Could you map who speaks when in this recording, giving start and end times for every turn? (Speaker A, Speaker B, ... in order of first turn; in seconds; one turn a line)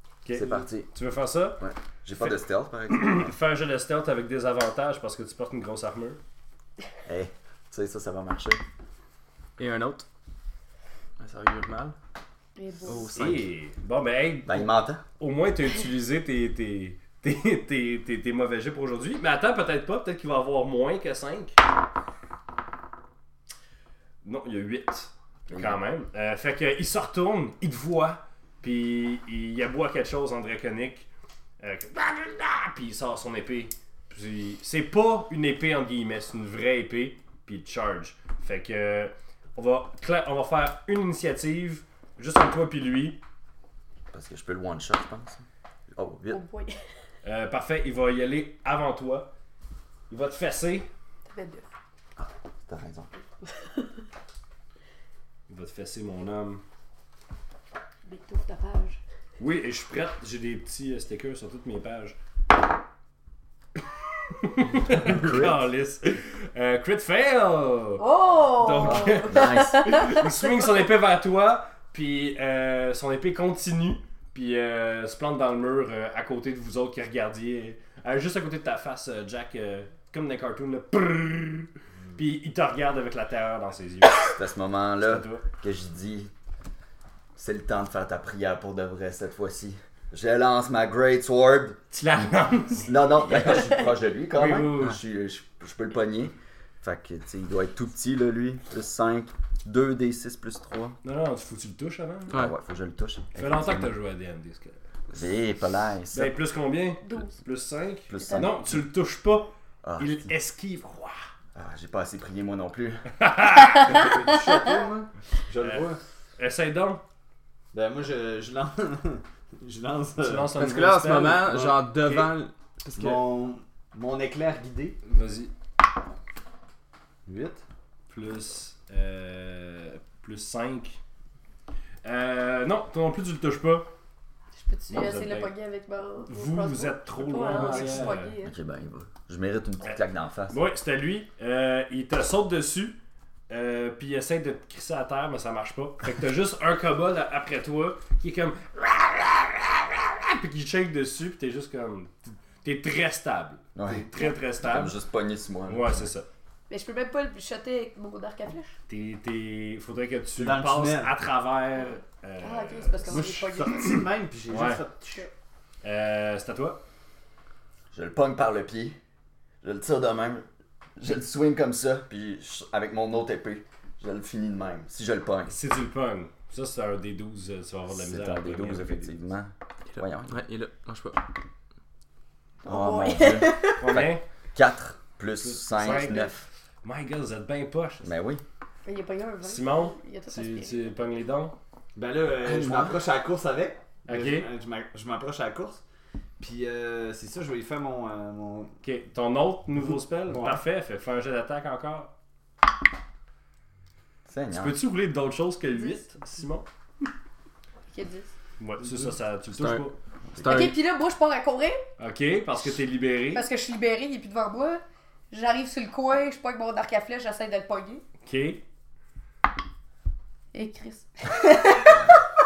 Speaker A: 0.2-1.6
Speaker B: 0.3-0.9
Speaker B: 1.6-3.3
Speaker A: 2.2-6.2
Speaker B: 7.0-8.6
Speaker C: 9.6-10.1
Speaker C: 11.2-11.9
Speaker D: 12.6-13.1
Speaker C: 12.8-13.5
Speaker A: 13.0-21.6
Speaker B: 14.4-15.0
Speaker A: 24.2-31.1
Speaker B: 25.5-25.8
Speaker A: 31.6-43.2
Speaker B: 44.1-46.4
Speaker D: 46.3-46.8
Speaker A: 47.2-49.3
Speaker A: 50.1-50.9
Speaker D: 51.3-51.7
Speaker B: 52.2-53.1
Speaker D: 53.5-53.9
Speaker A: 55.5-56.6
Speaker D: 58.1-59.0
Speaker A: 59.4-62.2
Speaker A: 64.3-84.3
Speaker B: 64.9-65.7
Speaker D: 68.0-70.3
Speaker B: 68.8-70.1
Speaker B: 84.3-86.3
Speaker A: 85.0-85.5
Speaker B: 87.4-101.0
Speaker A: 91.9-93.8
Speaker A: 94.3-95.0
Speaker A: 101.0-102.4
Speaker B: 102.3-103.9
Speaker A: 103.4-104.8
Speaker B: 105.1-106.3
Speaker A: 106.1-111.2
Speaker D: 107.0-107.3
Speaker B: 108.1-108.8
Speaker D: 108.2-108.5
Speaker B: 109.8-110.2
Speaker B: 111.5-113.1
Speaker A: 113.2-114.0
Speaker E: 113.8-116.0
Speaker A: 115.6-117.0
Speaker E: 117.7-120.6
Speaker A: 120.2-122.3
Speaker C: 120.6-123.2
Speaker E: 123.0-125.0
Speaker A: 125.0-125.5
Speaker E: 127.3-127.6
Speaker A: 128.1-131.0
Speaker A: 132.0-133.9
Speaker D: 134.6-138.6
Speaker A: 134.9-135.5
Speaker A: 136.3-138.3
Speaker E: 137.4-138.1
Speaker B: 138.4-140.6
Speaker A: 139.8-143.0
Speaker A: 143.5-155.0
Speaker B: 153.8-156.1
Speaker A: 155.7-156.3
Speaker D: 156.7-158.8
Speaker A: 158.9-164.8
Speaker E: 160.4-161.1
Speaker D: 162.4-163.9
Speaker E: 163.1-165.3
Speaker A: 165.8-166.8
Speaker B: 167.9-169.0
Speaker B: 169.6-170.5
Speaker B: 171.0-175.5
Speaker A: 175.5-179.2
Speaker B: 177.9-180.4
Speaker C: 179.9-181.2
Speaker B: 182.6-186.4
Speaker D: 182.7-183.8
Speaker A: 183.8-184.2
Speaker A: 185.4-188.1
Speaker D: 185.8-186.3
Speaker B: 188.0-188.4
Speaker D: 188.8-190.9
Speaker A: 189.4-191.6
Speaker E: 191.9-195.8
Speaker B: 192.4-193.0
Speaker A: 194.1-194.5
Speaker E: 196.4-198.7
Speaker A: 198.8-202.1
Speaker E: 200.3-200.6
Speaker B: 204.3-204.8
Speaker A: 204.5-206.7
Speaker D: 207.9-208.3
Speaker A: 208.6-210.0
Speaker C: 209.6-210.8
Speaker D: 210.4-211.9
Speaker A: 212.0-213.4
Speaker D: 213.3-218.0
Speaker A: 218.2-218.6
Speaker D: 220.5-222.2